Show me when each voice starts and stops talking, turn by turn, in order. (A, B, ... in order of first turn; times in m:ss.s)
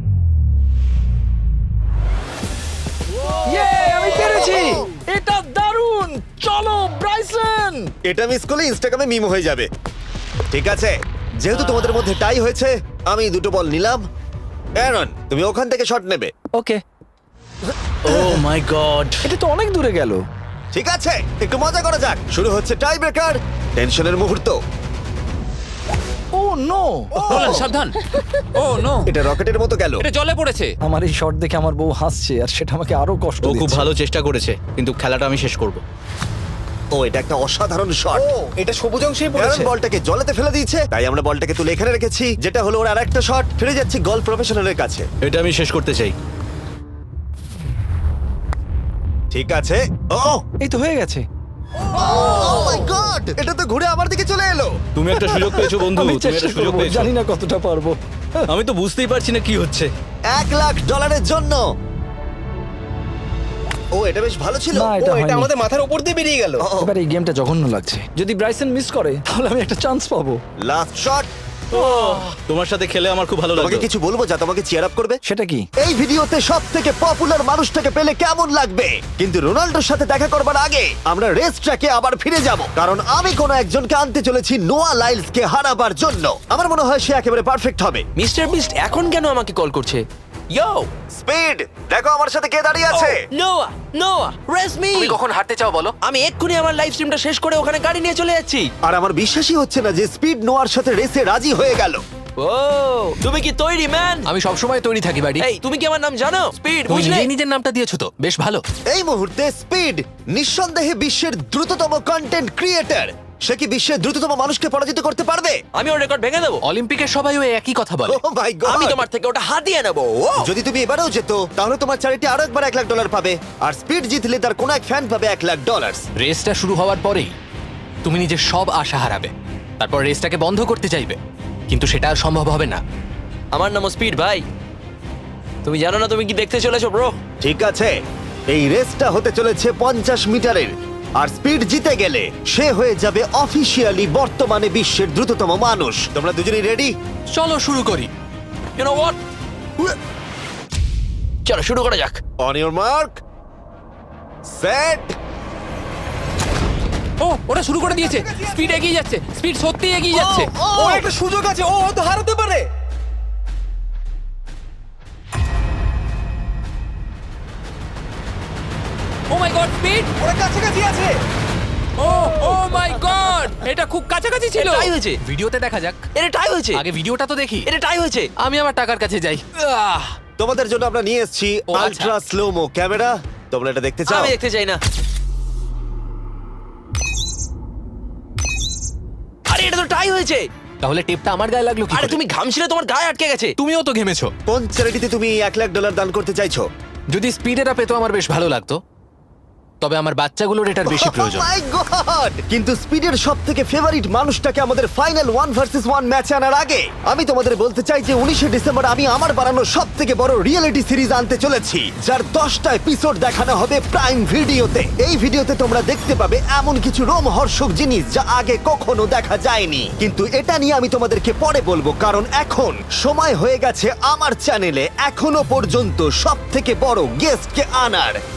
0:03.4-0:07.9 A
0:04.2-0:04.8 B
0:08.1-0:09.7 B
0:10.5-0:14.0 B
0:14.8-0:16.3 B
0:16.6-0:16.8 A
0:18.0-0:19.2 C
0:19.2-0:20.2 A
0:20.7-0:24.6 B
0:26.3-0:27.2 A
0:27.2-0:27.6 B
0:27.3-0:28.0 D
0:28.5-0:29.1 D
0:29.0-0:30.0 B
0:30.0-0:30.7 D
0:30.8-0:33.9 A
0:33.4-0:35.8 C
0:36.9-0:38.2 B
0:38.2-0:39.7 E
0:39.4-0:45.0 B
0:45.2-0:46.1 C
0:49.3-0:50.4 B
0:50.6-0:51.2 A
0:51.9-0:54.8 B
0:52.1-0:52.8 A
0:54.9-0:57.1 C
0:55.2-0:58.4 A
0:58.5-0:59.9 C
1:00.3-1:01.6 B
1:04.0-1:04.9 B
1:04.7-1:05.5 A
1:05.0-1:06.6 E
1:06.6-1:06.9 B
1:06.8-1:10.4 A
1:10.6-1:11.3 B
1:11.7-1:13.9 C
1:11.7-1:12.2 A
1:13.6-1:15.2 B
1:15.2-1:15.7 A
1:15.8-1:28.0 B
1:28.2-1:30.0 F
1:30.5-1:30.9 F
1:31.1-1:33.2 B
1:32.9-1:35.2 F
1:34.9-1:35.9 G
1:36.0-1:38.7 F
1:38.8-1:42.0 B
1:42.4-1:43.1 G
1:43.2-1:44.3 F
1:44.3-1:45.5 G
1:45.4-1:47.3 F
1:46.9-1:48.6 G
1:48.9-1:55.6 B
1:55.7-1:56.6 F
1:56.6-1:58.2 G
1:58.1-1:59.0 B
1:58.6-2:00.4 F
2:00.4-2:06.0 B
2:06.2-2:07.3 G
2:08.0-2:11.2 G
2:11.7-2:12.8 G
2:13.5-2:14.4 F
2:15.6-2:17.2 F
2:17.4-2:17.9 B
2:18.5-2:26.9 B
2:27.3-2:28.1 G
2:28.8-2:29.2 F
2:31.4-2:32.2 F
2:32.4-2:33.2 B
2:34.5-2:35.2 B
2:37.2-2:40.5 D
2:38.0-2:38.7 B
2:40.6-2:42.6 E
2:49.3-2:50.1 D
2:50.2-2:51.2 E
2:52.0-2:54.9 D
2:54.6-2:55.2 F
2:55.2-2:56.0 G
2:56.2-2:56.8 F
2:56.7-2:57.6 G
2:57.6-2:58.3 F
2:58.4-3:00.0 G
3:00.4-3:04.3 B
3:01.7-3:02.1 G
3:04.1-3:04.8 F
3:09.5-3:10.4 F
3:10.8-3:12.2 G
3:11.9-3:13.5 F
3:13.6-3:14.3 G
3:14.5-3:16.7 B
3:17.1-3:18.8 G
3:19.8-3:21.5 G
3:20.8-3:48.2 B